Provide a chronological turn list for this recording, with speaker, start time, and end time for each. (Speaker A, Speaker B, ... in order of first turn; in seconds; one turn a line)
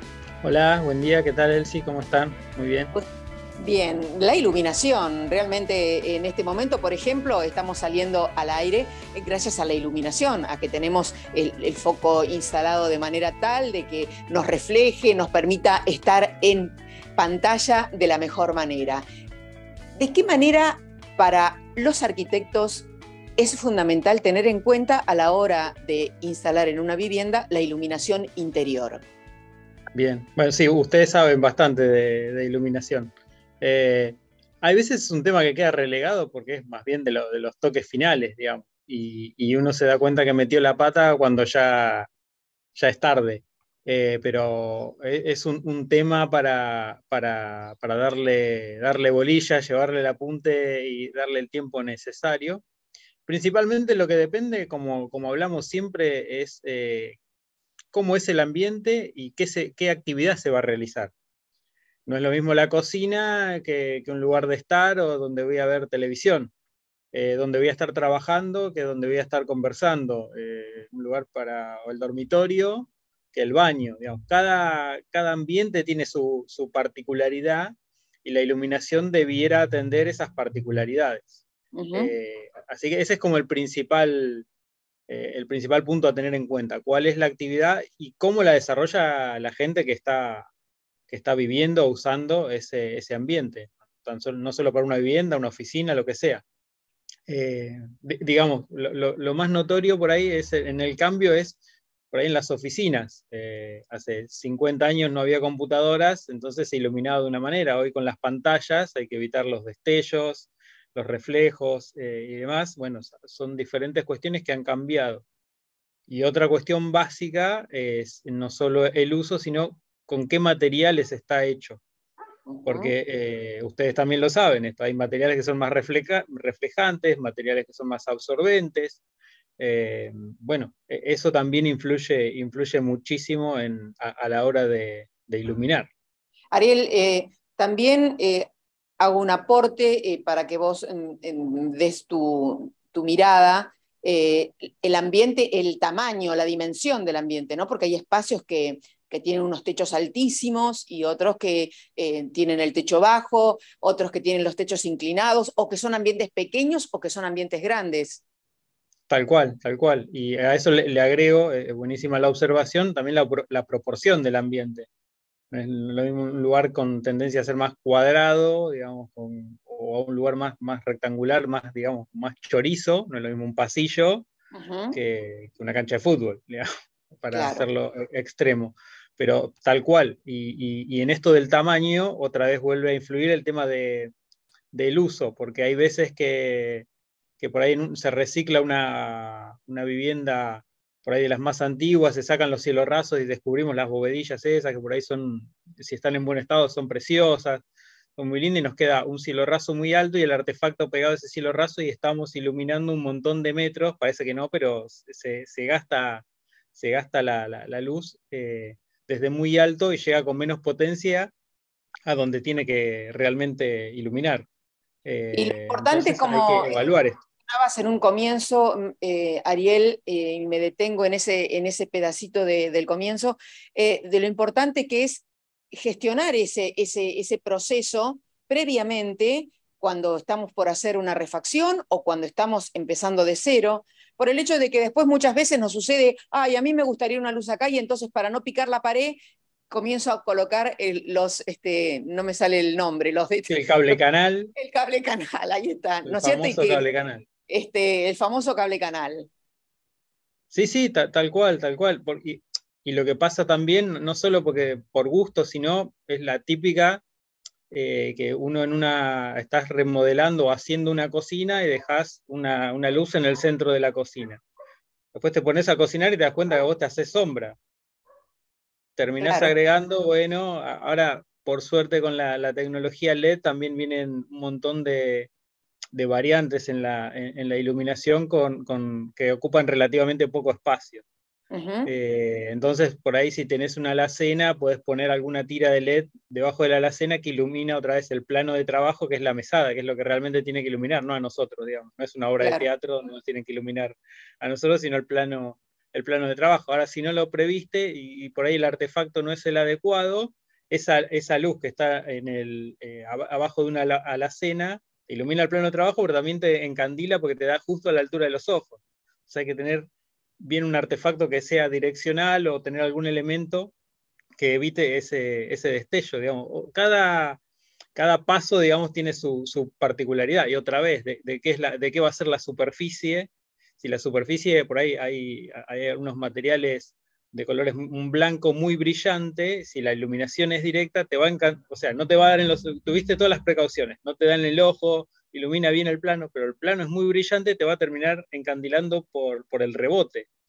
Speaker A: 0.4-2.9
Speaker B: 3.6-19.1
Speaker B: 20.0-29.0
Speaker A: 29.9-42.1
Speaker A: 42.8-52.6
Speaker A: 53.3-57.2
Speaker A: 57.9-61.1
Speaker A: 62.1-66.5
Speaker A: 67.1-81.4
Speaker B: 81.8-82.1
Speaker A: 81.9-84.5
Speaker A: 85.1-90.5
Speaker A: 91.1-96.4
Speaker A: 97.3-101.6
Speaker A: 102.1-115.2
Speaker A: 116.1-121.8
Speaker B: 122.5-122.9
Speaker A: 122.7-129.0
Speaker A: 129.6-135.9
Speaker B: 136.5-138.5
Speaker B: 139.0-158.2
Speaker A: 159.1-164.9
Speaker A: 165.5-174.3
Speaker B: 174.5-175.0
Speaker A: 174.9-184.1
Speaker B: 177.3-177.7
Speaker A: 184.7-186.9
Speaker A: 187.4-197.7
Speaker A: 198.2-211.3
Speaker A: 212.1-214.5
Speaker A: 215.1-217.2
Speaker B: 215.3-216.8
Speaker B: 217.5-239.2
Speaker B: 239.7-244.0
Speaker A: 243.5-244.5
Speaker B: 244.6-246.9
Speaker A: 246.1-247.2
Speaker B: 247.5-249.3
Speaker A: 250.5-257.0
Speaker A: 257.7-264.4
Speaker A: 265.1-267.6
Speaker A: 269.0-275.3
Speaker B: 269.2-269.5
Speaker A: 275.9-281.0
Speaker B: 281.5-281.9
Speaker A: 281.9-309.9
Speaker B: 292.4-292.7
Speaker A: 310.4-313.7
Speaker A: 314.4-317.4
Speaker A: 318.0-340.3